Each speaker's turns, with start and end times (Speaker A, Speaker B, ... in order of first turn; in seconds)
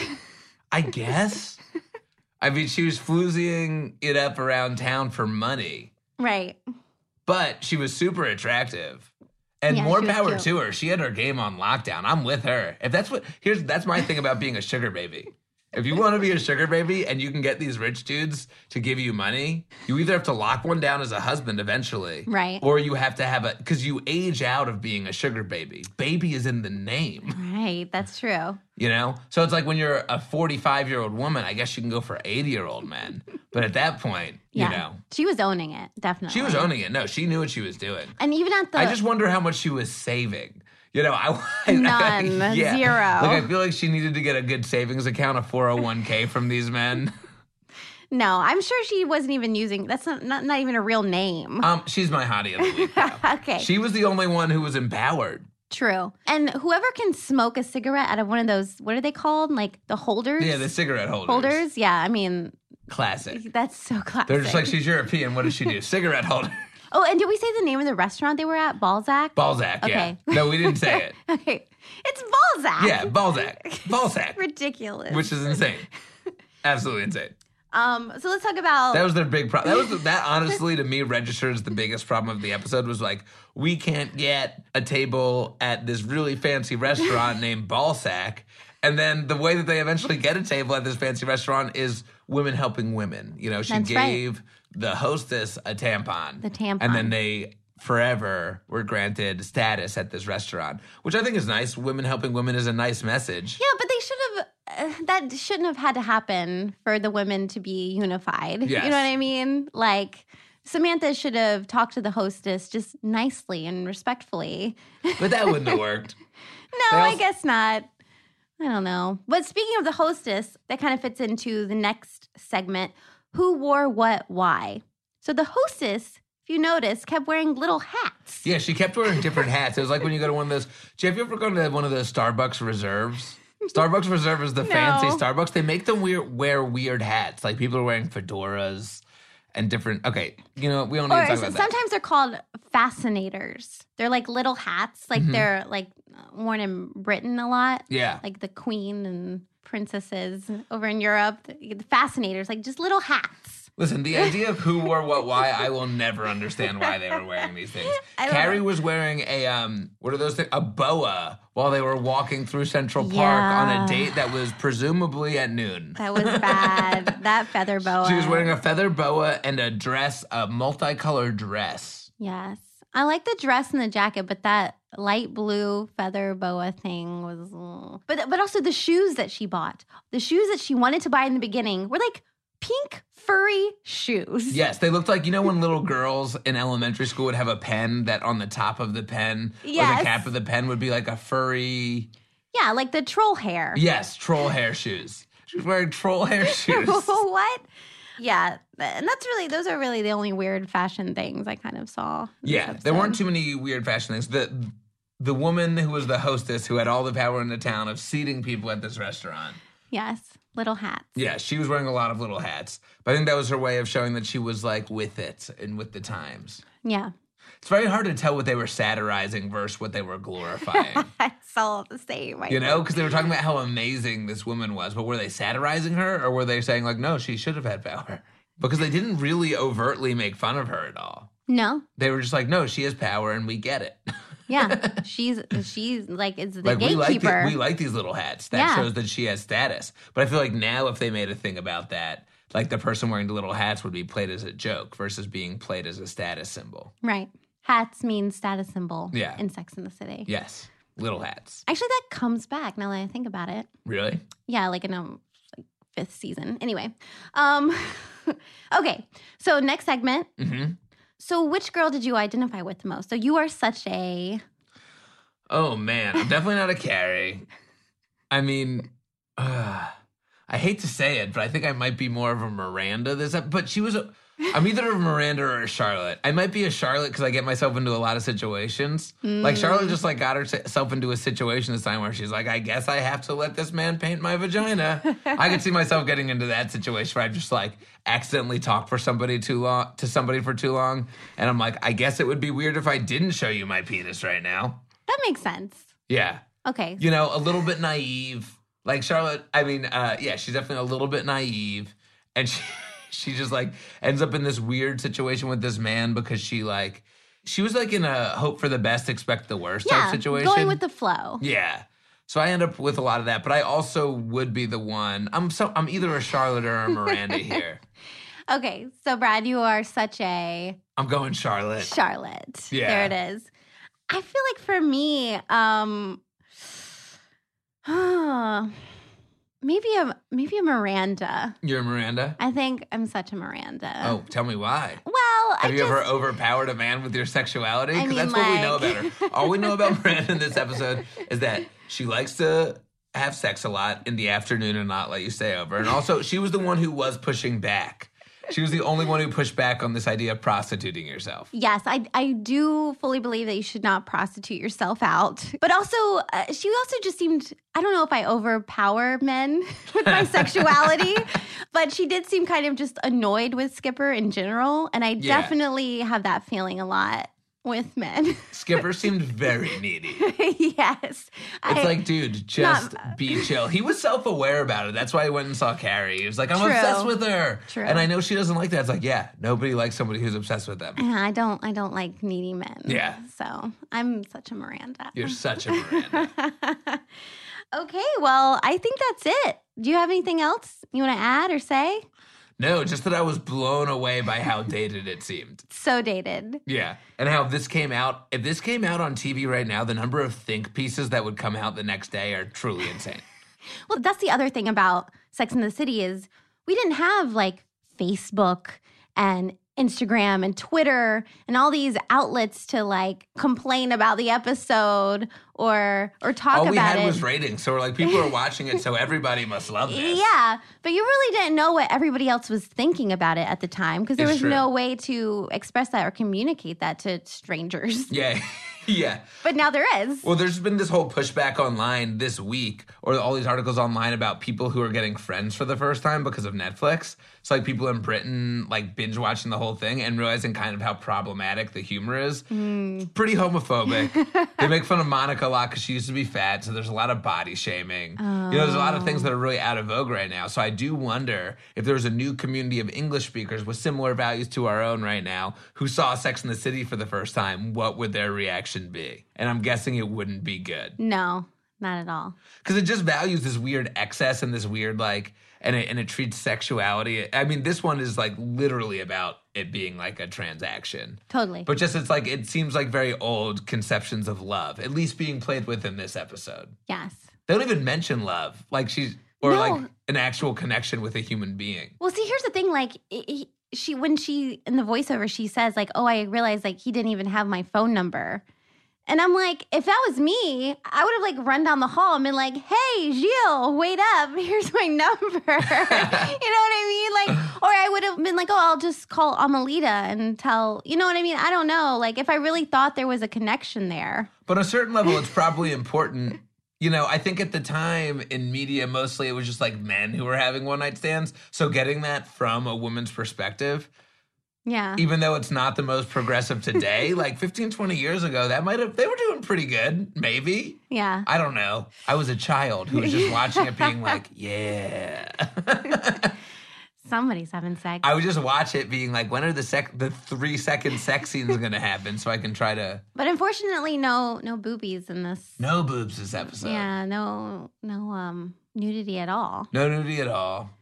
Speaker A: 0.7-1.6, 2.4-5.9, 7.3-9.1, 9.6-27.4, 28.8-35.0, 36.3-38.2, 38.8-47.1, 51.6-55.5, 60.4-61.6, 62.9-63.4, 64.3-66.7, 69.4-71.2, 72.8-74.4, 75.1-75.9, 76.6-77.3, 78.9-103.6, 108.6-109.1, 115.2-116.2, 116.9-117.2, 128.4-139.0, 139.5-141.7, 145.2-145.5, 147.9-148.2, 153.8-167.2, 168.0-172.1, 184.5-192.1, 193.8-197.2, 202.4-209.6, 211.2-216.6, 217.6-221.1, 222.5-231.3, 232.0-235.0, 236.6-246.9, 249.1-249.4, 250.3-251.7, 253.8-254.3, 260.4-260.8, 265.5-267.5, 268.3-269.9, 270.5-294.8, 296.1-296.4, 297.0-310.8, 311.4-317.8, 321.0-321.9, 322.7-323.1, 331.6-332.4, 334.0-335.0, 335.6-351.5, 360.1-361.2, 365.2-365.6, 368.5-370.2, 371.7-381.0, 382.9-383.2, 385.1-386.3, 392.6-395.6, 396.7-403.2, 416.5-420.2, 424.2-424.6, 428.1-429.2, 430.2-442.5, 443.1-461.0, 462.6-476.8, 477.5-481.9, 495.7-496.3, 504.5-513.9, 515.0-526.3, 528.0-533.0, 535.6-536.9, 539.7-540.7
Speaker B: 6.2-6.6, 9.7-10.5, 22.3-22.6, 27.3-28.6, 34.5-36.7, 38.2-39.0, 41.7-43.5, 48.1-51.7, 52.6-53.7, 55.7-60.7, 61.3-62.6, 63.3-64.8, 66.9-75.6, 77.7-79.1, 93.7-94.2, 96.4-97.1, 103.6-115.8, 116.7-117.9, 118.6-128.5, 134.6-135.2, 141.1-154.3, 157.9-158.6, 163.0-164.2, 166.0-168.5, 172.2-184.6, 189.6-190.3, 192.5-193.8, 196.4-197.7, 198.2-203.2, 209.9-211.1, 216.8-217.1, 220.6-223.1, 231.5-231.9, 234.5-237.6, 238.5-238.9, 247.0-250.3, 251.7-253.7, 254.5-260.3, 261.2-264.4, 279.2-280.0, 295.1-295.9, 296.6-297.0, 309.9-311.4, 317.1-317.6, 318.5-320.8, 321.8-323.5, 324.1-326.2, 327.9-328.8, 329.6-331.6, 332.4-334.2, 335.0-336.1, 337.9-339.9, 351.5-368.9, 370.2-373.5, 376.6-377.1, 377.7-378.1, 381.0-387.0, 387.7-392.0, 395.7-396.6, 403.9-417.2, 419.9-428.1, 429.4-430.3, 442.5-443.1, 444.1-444.6, 448.2-449.3, 461.0-462.4, 471.3-471.7, 476.9-477.3, 479.4-479.9, 482.0-488.4, 489.1-504.3, 514.7-515.0, 520.9-521.3, 523.0-524.1, 527.0-528.1, 533.2-535.6, 536.6-539.7